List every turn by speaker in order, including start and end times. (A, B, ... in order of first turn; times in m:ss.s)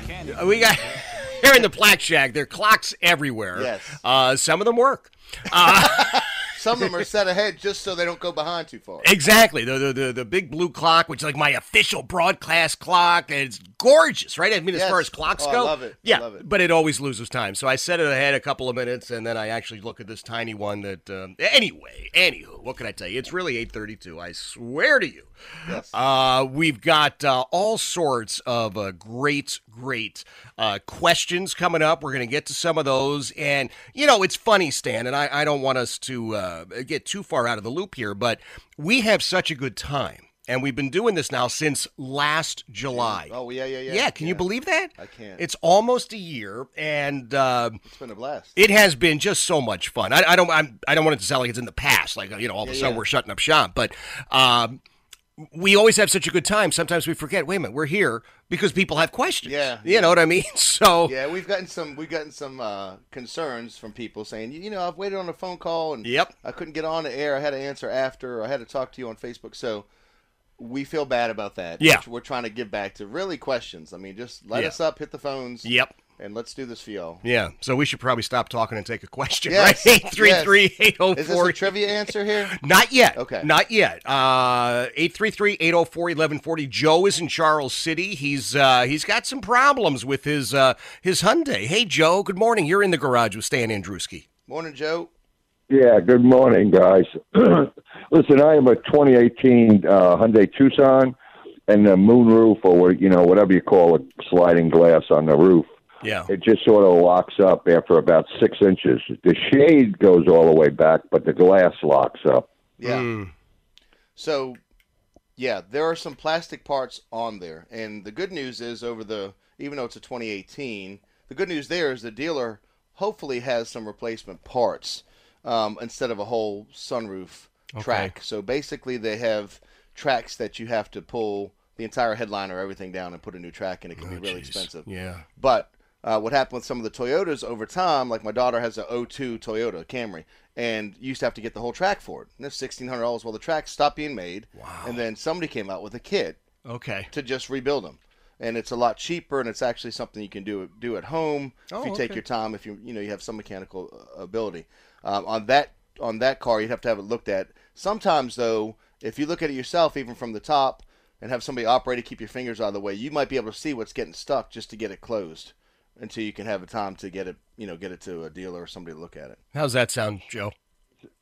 0:00.2-0:06.3 A
0:03.5-0:04.0 B
0:05.6-0:09.1 B
0:09.0-0:43.3 A
0:14.7-0:16.4 B
0:25.7-0:25.9 B
0:42.9-0:44.4 B
0:43.9-0:47.8 A
0:45.0-0:45.4 B
0:47.8-0:48.5 B
0:48.6-0:54.8 A
0:52.6-0:53.0 B
0:55.4-1:01.2 A
0:59.4-1:00.2 B
1:01.0-1:09.8 B
1:06.0-1:06.3 A
1:10.6-1:17.2 B
1:11.8-1:12.0 A
1:15.6-1:15.9 A
1:17.2-1:34.2 A
1:19.5-1:20.6 B
1:21.1-1:22.6 B
1:23.1-1:23.5 B
1:34.5-1:35.1 B
1:35.7-1:41.1 C
1:41.7-1:45.7 C
1:46.0-1:46.3 A
1:46.3-1:52.5 C
1:52.8-1:53.1 B
1:52.8-1:53.3 A
1:54.2-1:54.6 B
1:55.4-2:14.8 B
2:07.7-2:08.1 A
2:14.0-2:15.2 A
2:15.4-2:26.4 B
2:24.6-2:25.0 A
2:26.6-2:27.1 A
2:27.1-2:49.4 B
2:31.7-2:32.2 A
2:49.5-2:50.5 A